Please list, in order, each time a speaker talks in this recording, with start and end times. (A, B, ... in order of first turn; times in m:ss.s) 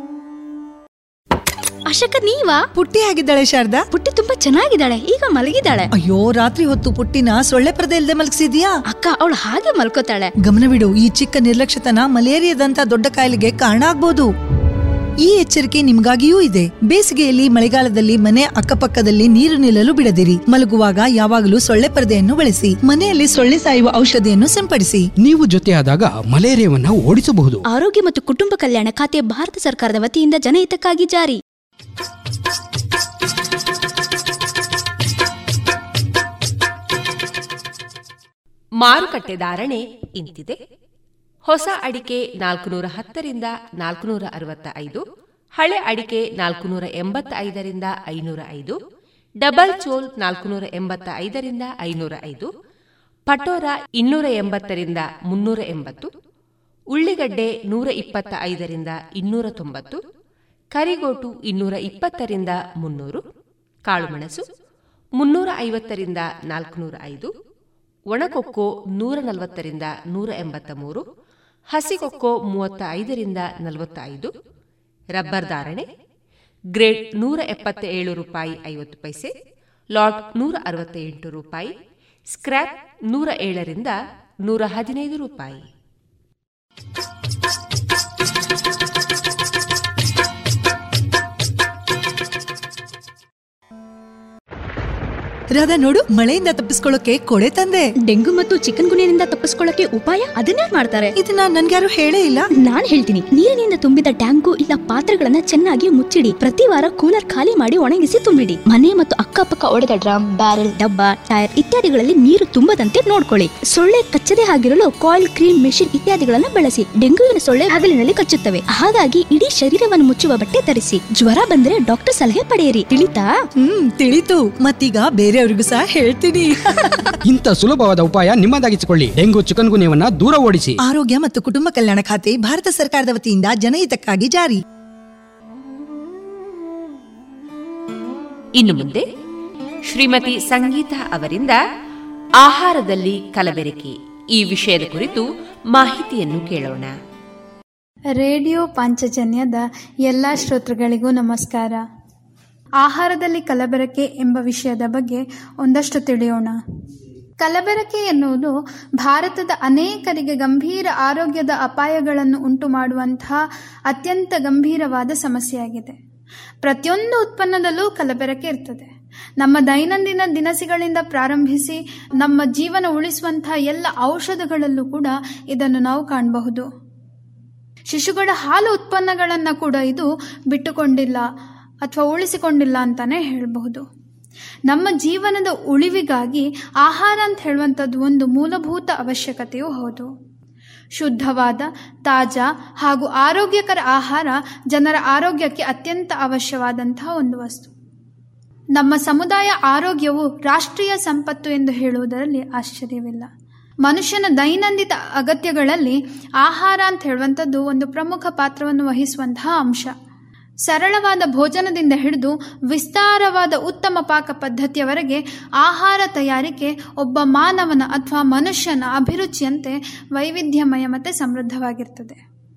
0:01.9-0:02.6 A
0:02.8-0:03.8 B
0:03.9-0:05.8 A
0:05.9-0:08.8 B
0:08.9-0:10.3 A
0:10.4-0:14.3 B
0:15.2-0:25.1 B
0:25.2-0:27.6 C
0:27.7-0:31.4 A
0:38.8-0:40.6 D
0:41.4-0:45.0 D
0:45.6-0:48.8 D
0:49.4-0:52.5 D
0:53.3-0:56.1 D
0:56.9-1:00.0 D
1:00.7-1:03.2 D
1:03.9-1:04.4 D
1:05.2-1:07.3 D
1:08.1-1:11.0 D
1:11.7-1:14.3 D
1:15.1-1:15.9 D
1:16.7-1:19.3 D
1:19.9-1:21.7 D
1:22.3-1:25.7 D
1:35.5-1:37.9 B
1:38.0-1:41.1 A
1:41.2-1:42.4 B
1:42.6-2:03.3 A
2:03.6-2:07.1 B
2:07.3-2:10.8 C
2:10.8-2:14.6 B
2:18.6-2:19.0 D
2:19.9-2:21.6 D
2:22.4-2:27.0 D
2:28.1-2:31.8 E
2:32.8-2:36.6 E
2:37.4-2:46.0 E
2:46.6-2:48.9 E
2:49.4-2:56.7 E
2:57.9-3:01.3 E
3:01.8-3:03.8 E
3:04.7-3:10.1 E
3:11.0-3:17.7 E
3:18.8-3:23.3 E
3:23.8-3:29.9 E
3:30.7-3:42.2 E